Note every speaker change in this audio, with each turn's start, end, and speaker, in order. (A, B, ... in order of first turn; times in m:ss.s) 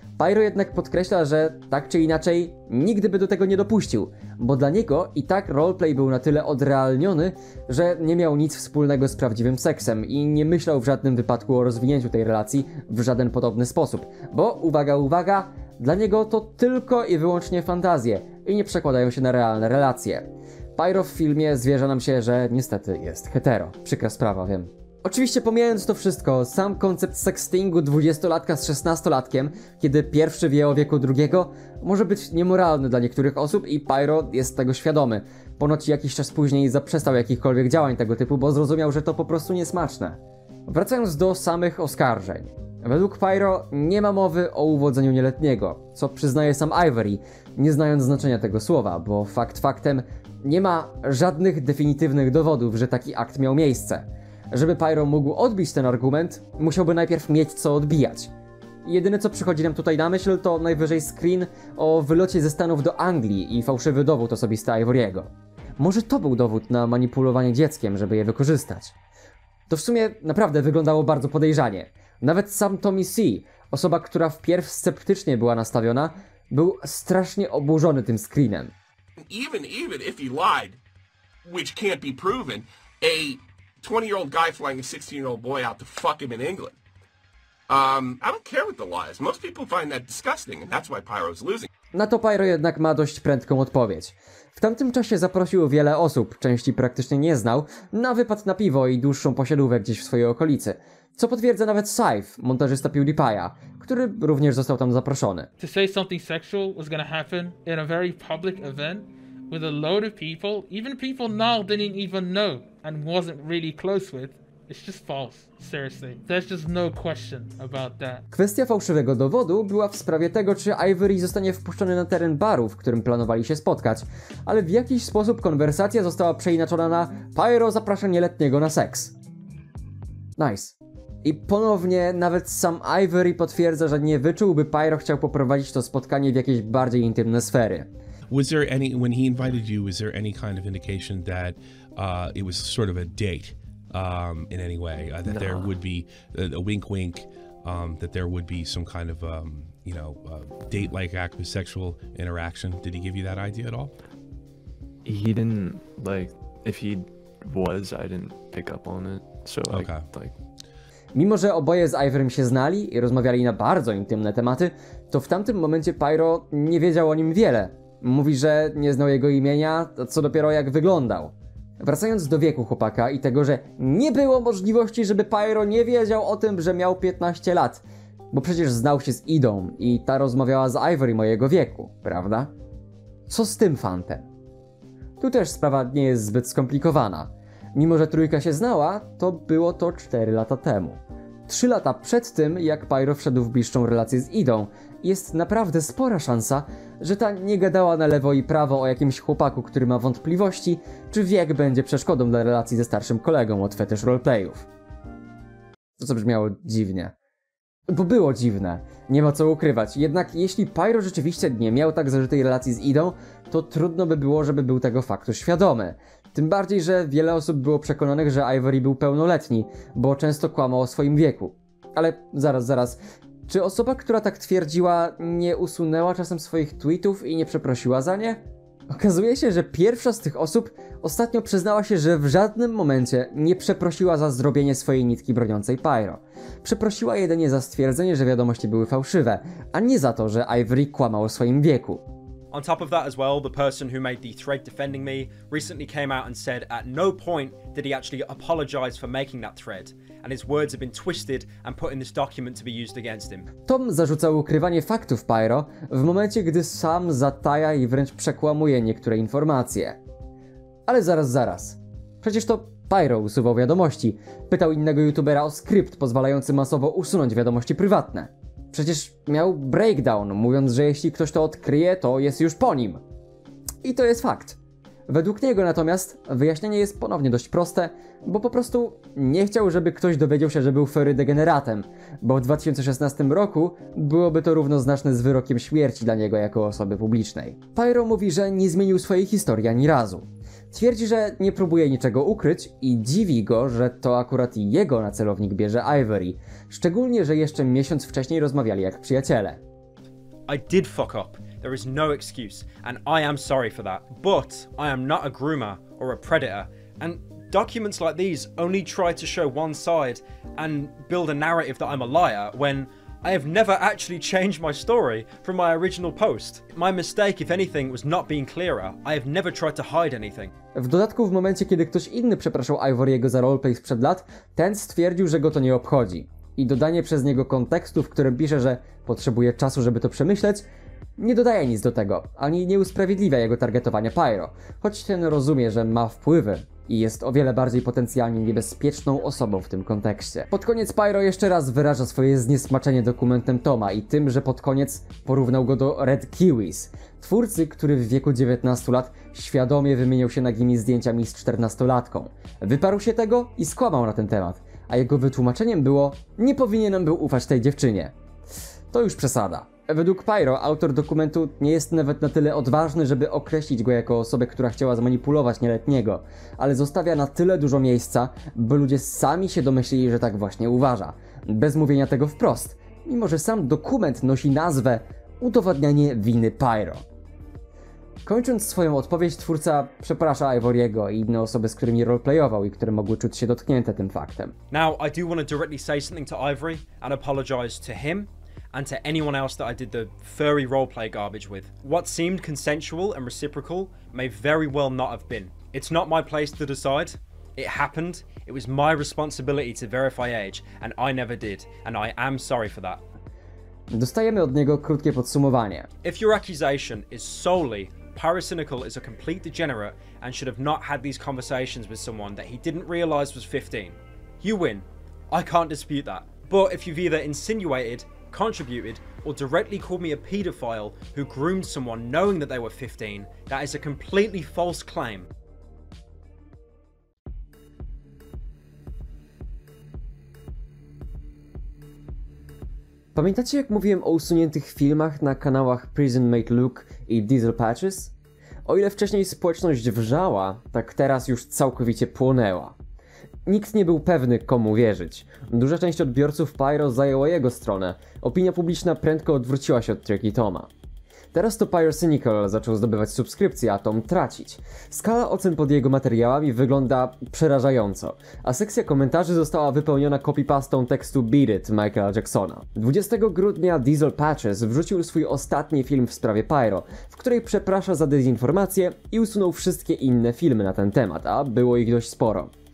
0:00.2-0:58.3 A
0:58.8-1:08.9 A
1:09.7-1:18.7 A
1:19.2-1:20.8 B
1:21.4-1:26.8 B
1:27.7-1:31.7 B
1:31.9-1:45.5 A
1:45.6-1:58.2 C
1:58.3-2:09.1 A
2:10.4-2:17.9 A
2:18.3-2:33.9 D
2:25.2-2:25.8 E
2:35.0-2:40.4 E
2:39.7-2:40.1 D
2:41.1-3:02.5 A
3:03.3-3:04.3 A
3:05.2-3:24.6 A
3:26.0-3:27.1 A
3:27.9-4:02.0 A
4:02.5-4:13.5 F
4:13.7-4:20.0 A
4:20.9-4:33.0 A
4:33.8-4:34.6 A
4:35.1-4:59.6 A
5:00.5-5:20.5 F
5:20.7-5:30.6 A
5:31.2-5:58.1 A
5:58.9-6:17.0 A
6:18.2-6:24.5 A
6:24.7-6:43.0 F
6:43.9-6:45.9 A
6:46.0-7:05.3 F
7:13.1-7:18.1 A
7:18.6-7:22.7 A
7:23.4-7:30.7 A
7:31.3-7:52.5 A